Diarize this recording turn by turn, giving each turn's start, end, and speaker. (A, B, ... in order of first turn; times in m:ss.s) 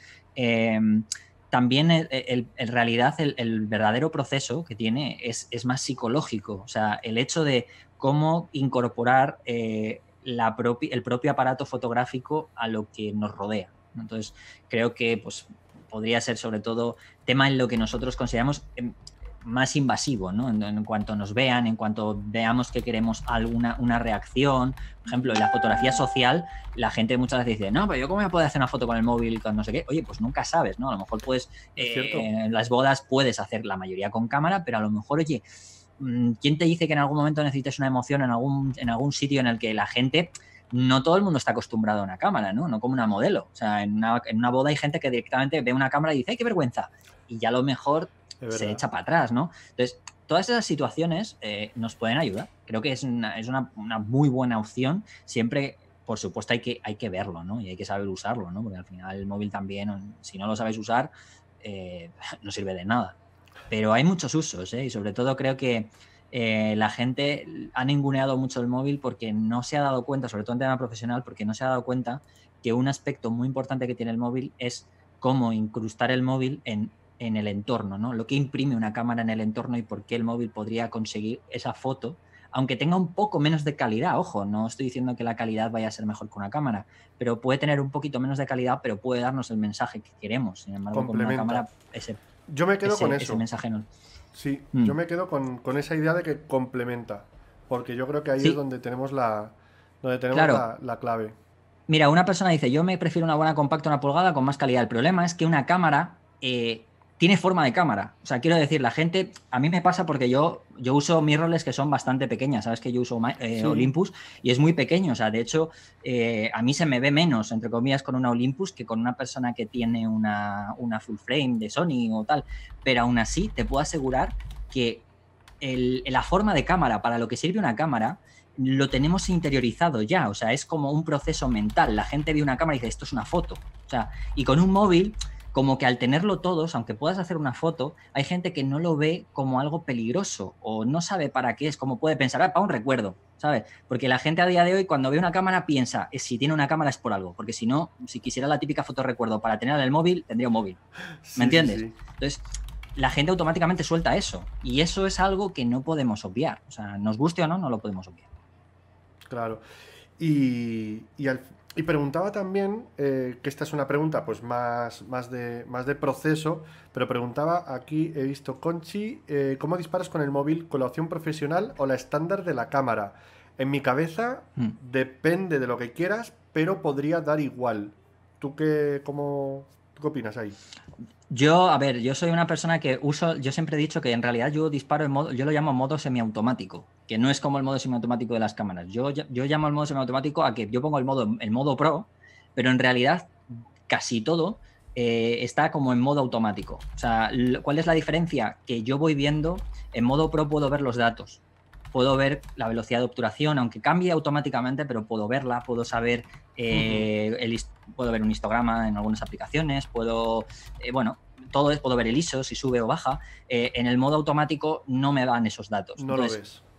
0:00.4-0:35.4 A
0:31.8-0:32.3 B
0:36.0-1:03.2 A
0:48.4-0:48.8 B
1:03.7-1:32.2 A
1:30.9-1:31.6 B
1:32.5-1:33.4 B
1:32.8-1:33.9 A
1:34.3-1:41.4 B
1:40.3-1:40.6 A
1:41.9-2:05.0 A
1:53.6-1:53.9 B
2:05.6-2:30.8 A
2:31.2-2:32.0 B
2:31.4-2:32.4 A
2:33.0-2:38.2 A
2:39.3-2:39.6 B
2:40.2-3:00.6 B
3:01.3-3:21.4 A
3:21.9-3:36.4 A
3:26.7-3:27.1 B
3:36.0-3:36.6 B